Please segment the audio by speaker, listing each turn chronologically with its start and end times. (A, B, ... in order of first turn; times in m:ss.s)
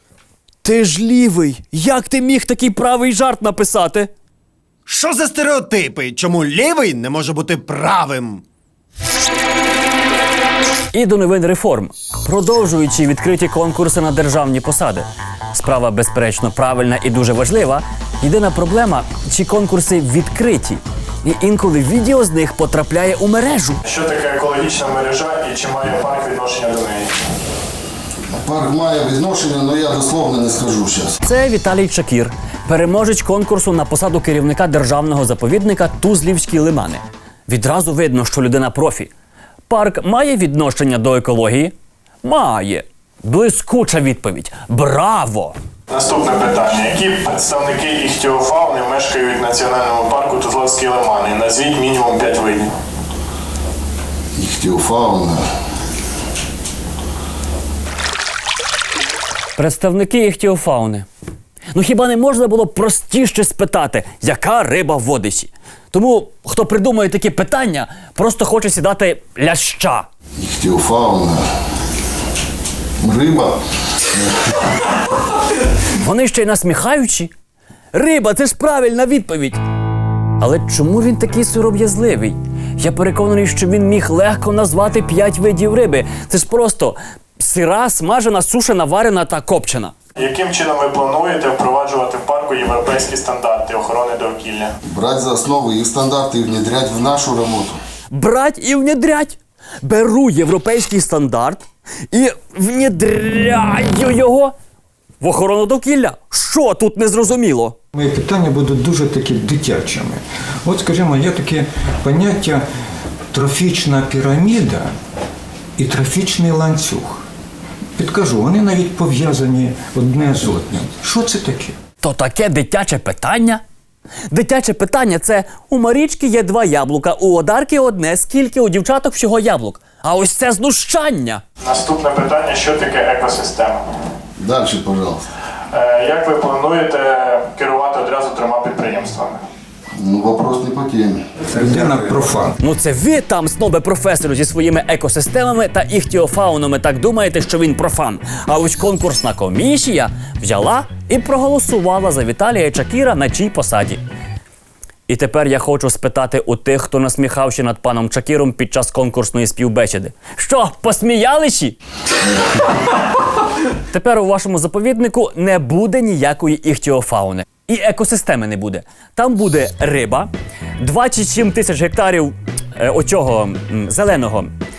0:00.6-0:04.1 A
0:04.9-0:08.4 B
0:10.9-0:23.8 A
0:23.8-0:27.1 C
0:28.4-0:31.1 D
0:31.2-0:39.1 A
0:39.7-0:45.5 A
0:45.9-0:52.7 C
0:54.4-0:55.4 D
0:59.6-1:01.0 A
1:01.7-1:10.1 A
1:10.4-1:11.4 D
1:13.0-1:14.3 D
1:16.0-1:17.3 A
1:17.9-1:19.6 A
1:20.4-1:29.9 A
1:30.2-1:34.7 C
1:34.9-1:37.8 D
1:38.1-1:44.5 A
1:45.2-1:47.8 A
1:47.9-1:52.6 E
1:53.3-1:54.9 E
1:55.8-1:57.2 E
1:58.0-2:01.8 E
2:02.0-2:03.6 A
2:04.3-2:11.4 A
2:11.6-2:13.8 C
2:14.4-2:15.2 D
2:15.7-2:19.4 C
2:20.0-2:22.2 D
2:21.5-2:22.6 E
2:22.6-2:34.0 A
2:35.1-2:41.8 A
2:43.9-2:54.5 A